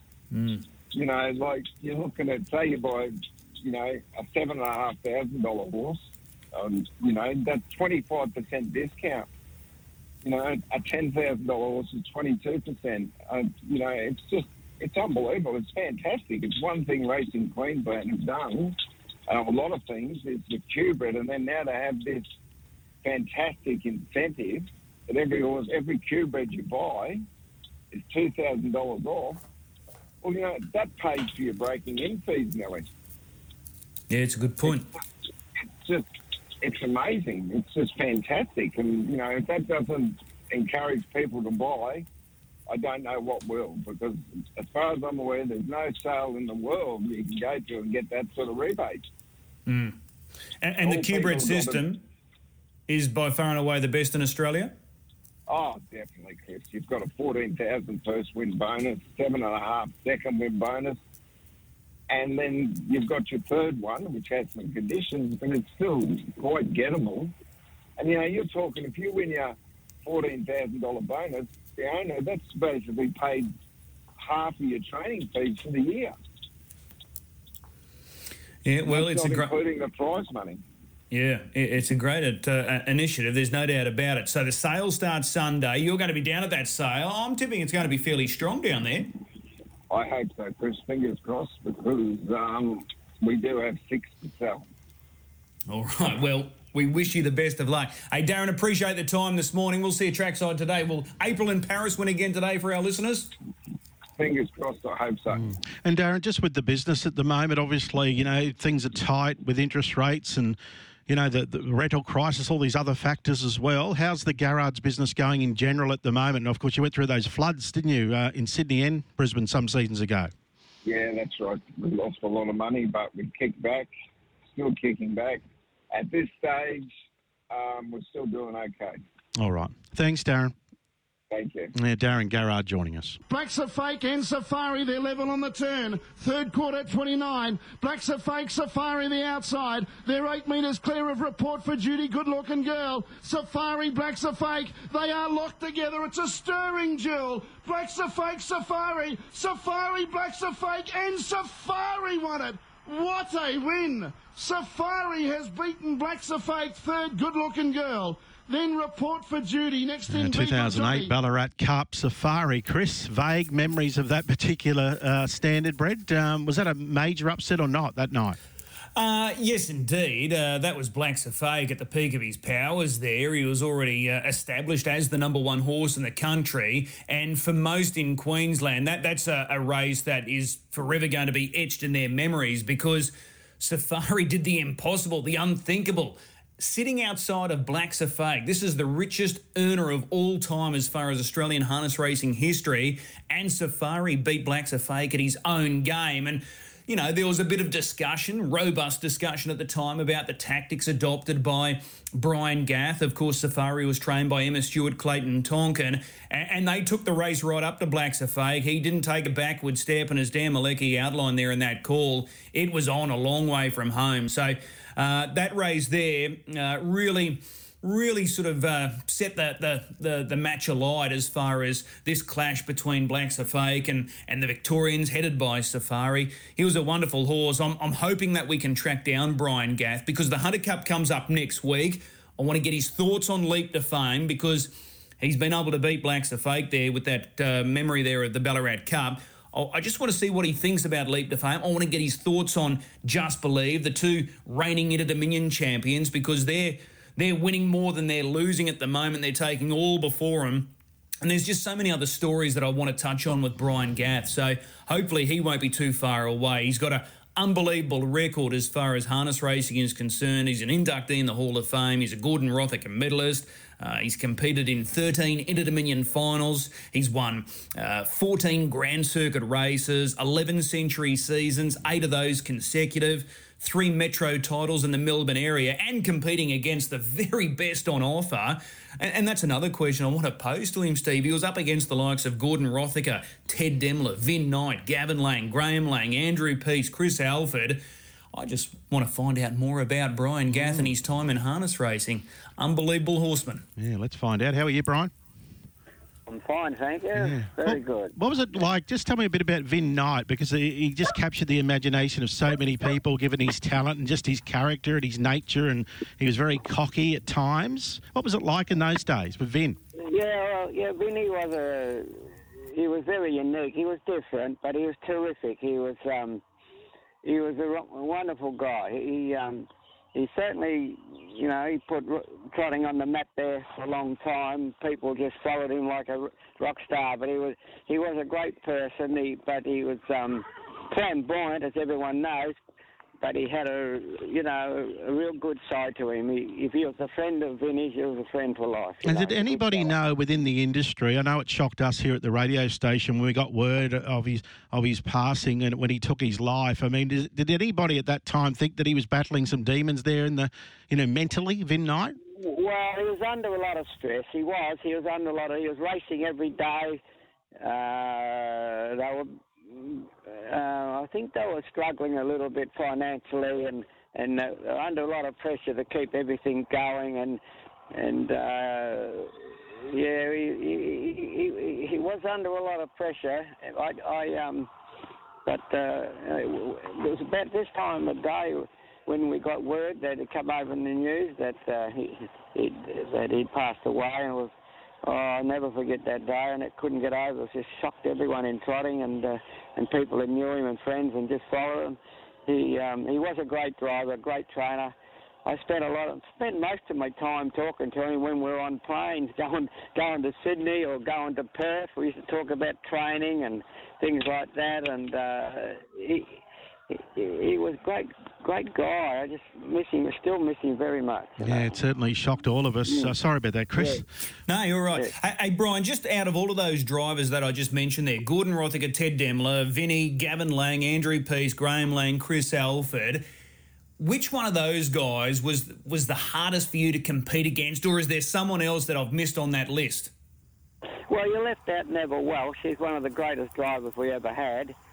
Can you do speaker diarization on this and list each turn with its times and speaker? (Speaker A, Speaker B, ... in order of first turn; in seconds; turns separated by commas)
Speaker A: 0.3-0.6, Speaker B: 0.9-9.3, Speaker B: 10.2-18.8, Speaker B: 19.3-22.2, Speaker B: 23.0-27.2, Speaker B: 27.9-29.4, Speaker B: 30.2-32.9, Speaker A: 34.1-34.9, Speaker B: 35.6-36.1, Speaker B: 36.6-42.0, Speaker B: 42.7-49.0, Speaker A: 49.7-50.0, Speaker A: 50.6-52.0, Speaker B: 50.8-51.8, Speaker A: 52.9-54.7, Speaker B: 55.5-61.0, Speaker B: 62.1-67.3, Speaker B: 68.0-73.5, Speaker B: 74.2-76.1, Speaker A: 78.6-79.5, Speaker B: 78.9-80.6, Speaker A: 81.1-89.1, Speaker B: 89.9-94.6, Speaker A: 95.7-103.3, Speaker B: 104.2-105.5, Speaker C: 105.3-120.3, Speaker B: 120.8-123.9, Speaker B: 124.5-126.9, Speaker B: 127.5-129.0, Speaker C: 129.3-130.5, Speaker B: 131.3-131.7, Speaker C: 131.7-133.2, Speaker D: 133.3-161.1, Speaker C: 160.1-168.4, Speaker A: 168.9-293.6, Speaker C: 290.5-290.9, Speaker C: 293.8-295.1, Speaker E: 296.3-298.1, Speaker C: 297.1-309.8, Speaker E: 310.0-316.4, Speaker E: 317.2-332.5, Speaker E: 333.2-339.9, Speaker C: 339.0-352.2, Speaker E: 352.4-357.0, Speaker E: 357.6-367.4, Speaker E: 367.9-374.7, Speaker E: 375.4-384.5, Speaker E: 385.0-394.9, Speaker E: 395.4-406.4, Speaker E: 406.9-411.6, Speaker C: 411.4-414.1, Speaker E: 412.9-413.1, Speaker E: 413.8-414.0, Speaker A: 414.5-423.2, Speaker A: 424.0-430.1, Speaker E: 431.1-434.7